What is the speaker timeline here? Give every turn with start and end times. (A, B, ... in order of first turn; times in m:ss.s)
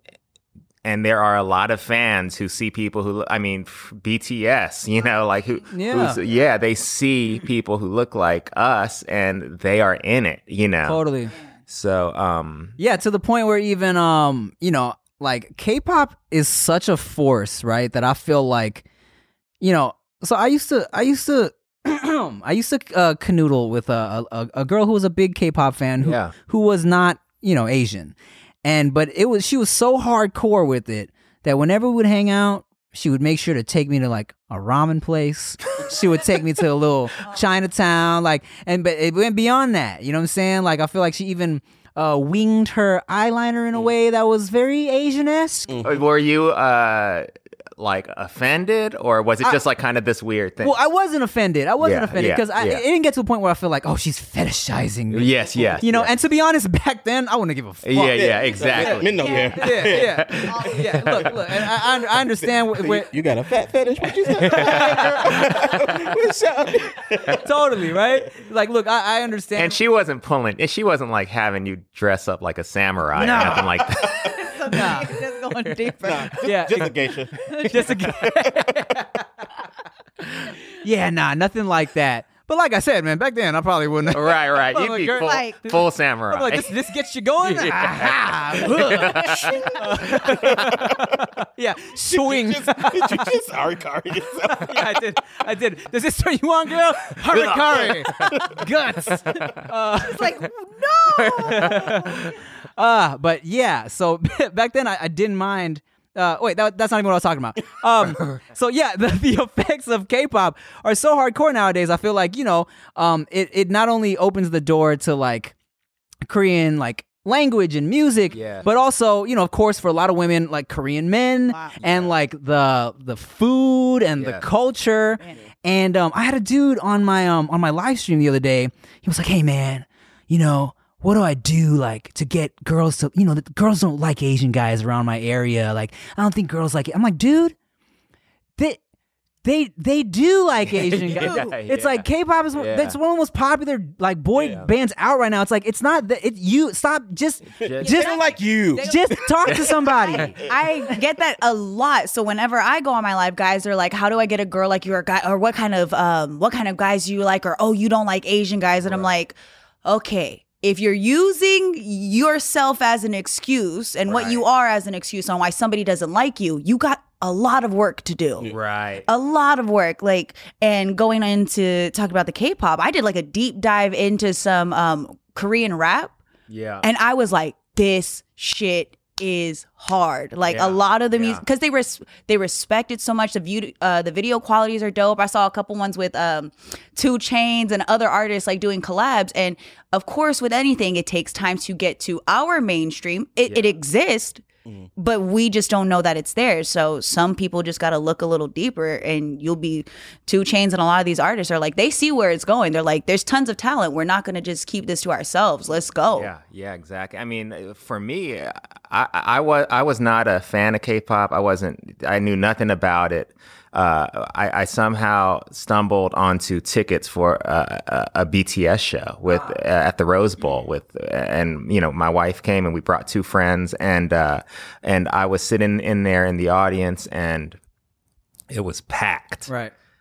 0:00.8-0:11.0 A
0:05.7-0:06.2 B
0:10.8-0:11.3 B
0:11.7-0:12.8 A
0:12.8-0:18.8 B
0:19.6-0:45.9 B
0:26.0-0:26.3 A
0:45.7-0:45.9 C
0:45.8-0:50.8 A
0:50.6-0:59.0 B
0:51.8-0:52.8 A
0:55.1-0:56.1 A
0:57.8-0:59.4 A
0:58.1-1:00.2 C
0:58.8-1:01.1 D
0:59.6-1:03.1 B
1:00.0-1:01.5 A
1:02.2-1:07.8 C
1:04.3-1:05.2 B
1:04.5-1:05.7 A
1:07.4-1:09.8 B
1:09.6-1:14.3 A
1:13.2-1:13.8 B
1:14.1-1:16.4 D
1:14.7-1:15.1 B
1:16.0-1:18.9 C
1:16.4-1:17.0 B
1:17.5-1:19.2 B
1:20.8-1:33.3 B
1:24.1-1:26.7 A
1:25.1-1:25.6 D
1:27.4-1:29.6 A
1:29.0-1:31.3 C
1:32.1-1:35.0 C
1:34.4-1:40.3 B
1:37.3-1:38.4 A
1:38.1-1:38.6 C
1:39.3-1:39.6 A
1:40.0-1:42.2 D
1:41.2-1:42.3 A
1:41.4-1:42.2 B
1:42.8-1:55.5 B
1:56.3-2:17.6 B
1:58.3-1:58.7 A
2:01.5-2:01.8 D
2:01.8-2:02.1 A
2:04.2-2:04.5 A
2:05.2-2:05.4 D
2:19.4-2:28.2 B
2:20.7-2:23.0 A
2:24.4-2:24.6 C
2:27.6-2:28.0 A
2:27.6-2:29.2 C
2:27.8-2:48.5 D
2:28.8-2:30.3 B
2:29.5-2:30.4 A
2:38.8-2:39.2 A
2:44.1-2:44.4 A
2:48.5-2:49.1 A
2:49.1-2:56.2 D
2:56.5-2:56.9 A
2:56.8-3:14.4 D
3:00.5-3:01.4 A
3:13.5-3:13.8 A
3:15.0-3:26.3 D
3:26.1-3:47.6 A
3:48.5-3:49.5 A
3:49.5-3:49.7 B